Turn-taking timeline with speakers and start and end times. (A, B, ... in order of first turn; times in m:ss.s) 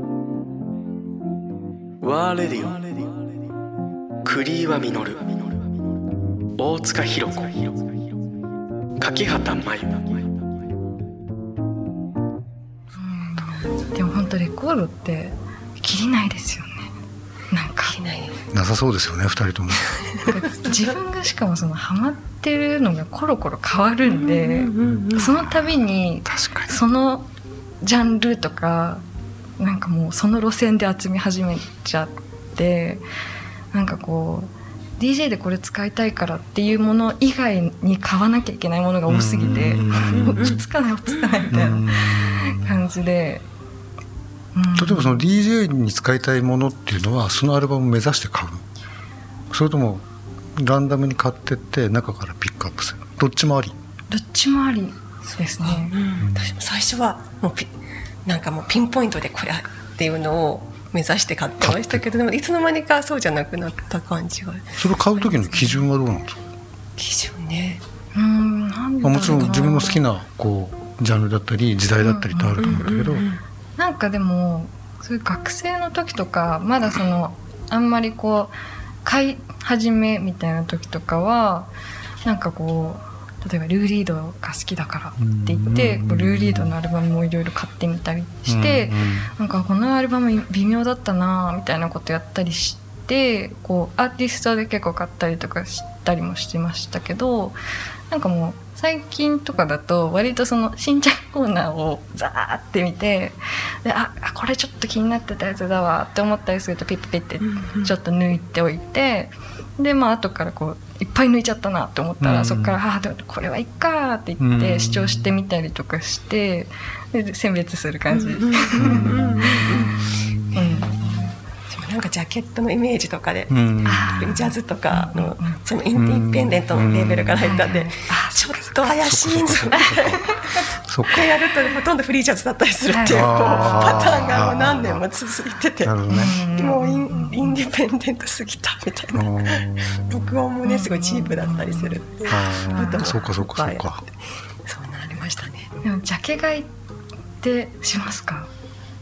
0:02.0-0:03.0 A
0:04.2-0:05.5 A
0:06.6-0:07.7 A
0:09.0-0:10.2 A
0:13.0-0:16.9 B
0:17.5-0:18.0 B
0:17.8-0:18.4 C
0:18.5-0:20.0 D
0:20.2-0:27.3 B
0:24.0-0:25.3 C
0:26.2-0:26.8 D
0:27.8-0:29.0 B
0:29.6-0:33.0 B
0:33.7-0:43.4 B
0:39.1-0:40.6 D
0:39.7-0:40.6 C
0:41.1-0:41.5 C
0:41.5-0:42.7 D
0:44.5-0:45.2 B
0:44.8-0:48.6 D
0:49.5-0:53.8 D
0:54.1-0:55.9 B
0:55.4-0:57.7 C
0:56.2-0:56.5 D
0:58.2-1:05.9 C
1:01.6-1:02.1 D
1:04.8-1:06.4 D
1:07.0-1:07.8 C
1:08.1-1:10.0 B
1:09.0-1:13.3 D
1:12.0-1:12.8 B
1:12.6-1:13.4 C
1:13.8-1:21.7 B
1:22.2-1:37.6 B
1:25.2-1:26.7 D
1:28.4-1:29.3 D
1:38.1-2:00.0 B
1:47.4-1:47.9 C
1:52.2-1:52.8 D
1:54.4-1:55.3 D
1:58.1-2:00.0 C
1:58.8-2:01.0 D
2:00.5-2:01.0 C
2:00.5-2:01.3 B
2:01.7-2:10.2 C
2:03.5-2:04.4 D
2:03.8-2:05.6 B
2:05.9-2:07.7 D
2:07.4-2:08.9 B
2:09.0-2:10.3 D
2:09.7-2:10.6 B
2:10.8-2:11.3 D
2:11.1-2:24.1 C
2:12.9-2:14.5 B
2:13.0-2:15.0 D
2:15.8-2:16.4 D
2:16.1-2:17.6 B
2:19.1-2:20.4 D
2:20.6-2:23.1 B
2:22.2-2:24.0 D
2:24.6-2:25.7 C
2:25.8-2:26.7 B
2:27.4-2:28.5 B